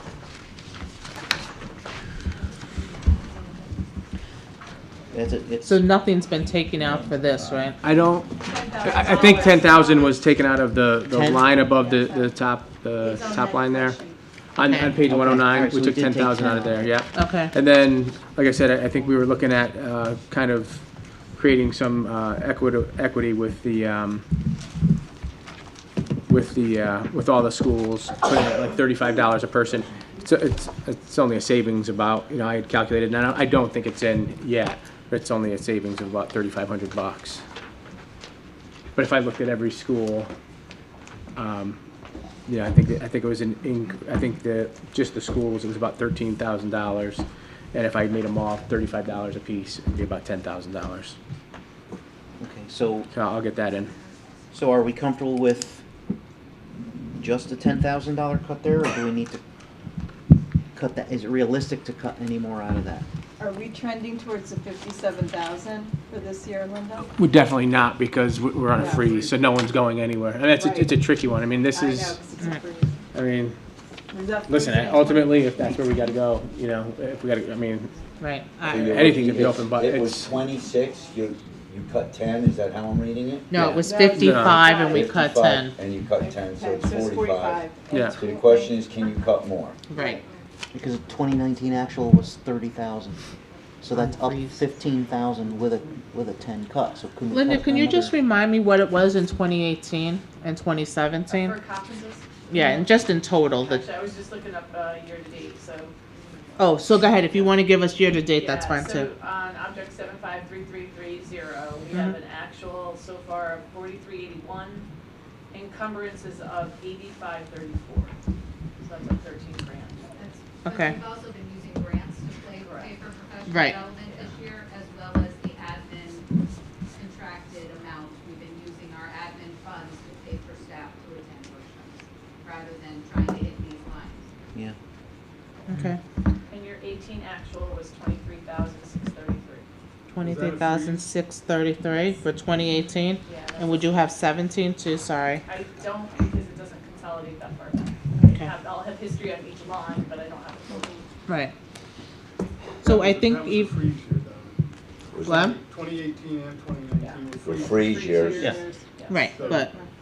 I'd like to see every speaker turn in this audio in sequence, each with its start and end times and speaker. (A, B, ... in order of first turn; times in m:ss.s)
0:05.1-0:05.9 A
0:05.6-0:07.8 B
0:06.8-0:07.5 C
0:07.8-0:14.0 D
0:08.5-0:09.9 E
0:11.1-0:11.5 A
0:11.7-0:12.2 F
0:13.1-0:14.1 E
0:14.6-0:24.2 D
0:15.0-0:17.0 A
0:17.1-0:17.5 B
0:26.3-0:37.4 D
0:39.0-0:40.3 D
0:41.4-0:41.8 D
0:42.5-0:51.2 D
0:52.4-0:53.1 A
0:53.1-0:53.9 D
0:54.5-0:55.8 A
0:57.2-0:59.4 A
1:00.7-1:03.1 A
1:03.4-1:07.1 F
1:07.1-1:12.3 D
1:08.7-1:09.1 F
1:08.7-1:09.6 G
1:10.5-1:11.0 F
1:11.7-1:13.0 F
1:13.1-1:13.6 D
1:14.1-1:16.0 F
1:14.4-1:17.9 D
1:18.2-1:18.9 B
1:18.6-1:23.8 C
1:18.9-1:20.4 D
1:20.4-1:21.0 H
1:23.5-1:25.8 B
1:23.6-1:24.7 D
1:23.8-1:25.1 F
1:24.4-1:29.8 C
1:26.2-1:28.7 F
1:27.9-1:28.2 D
1:29.9-1:30.2 B
1:30.7-1:33.2 A
1:33.8-1:38.2 A
1:33.9-1:34.6 B
1:37.3-1:41.6 B
1:41.3-1:46.6 E
1:42.5-1:43.8 B
1:46.6-1:49.1 B
1:47.3-1:47.6 E
1:48.3-1:54.9 E
1:51.9-1:52.2 B
1:55.5-1:58.1 E
1:58.8-2:00.2 E
2:00.2-2:06.3 H
2:00.6-2:01.0 B
2:02.6-2:03.0 E
2:03.5-2:03.8 B
2:06.9-2:14.3 H
2:15.7-2:16.0 B
2:16.5-2:19.7 E
2:20.1-2:25.4 B
2:20.2-2:21.1 G
2:23.2-2:24.0 E
2:25.4-2:31.0 E
2:31.3-2:31.5 B
2:32.8-2:38.5 G
2:32.8-2:33.8 B
2:35.1-2:35.6 C
2:35.3-2:35.6 B
2:37.4-2:38.6 C
2:37.7-2:38.8 F
2:39.1-2:39.7 B
2:39.2-2:39.8 G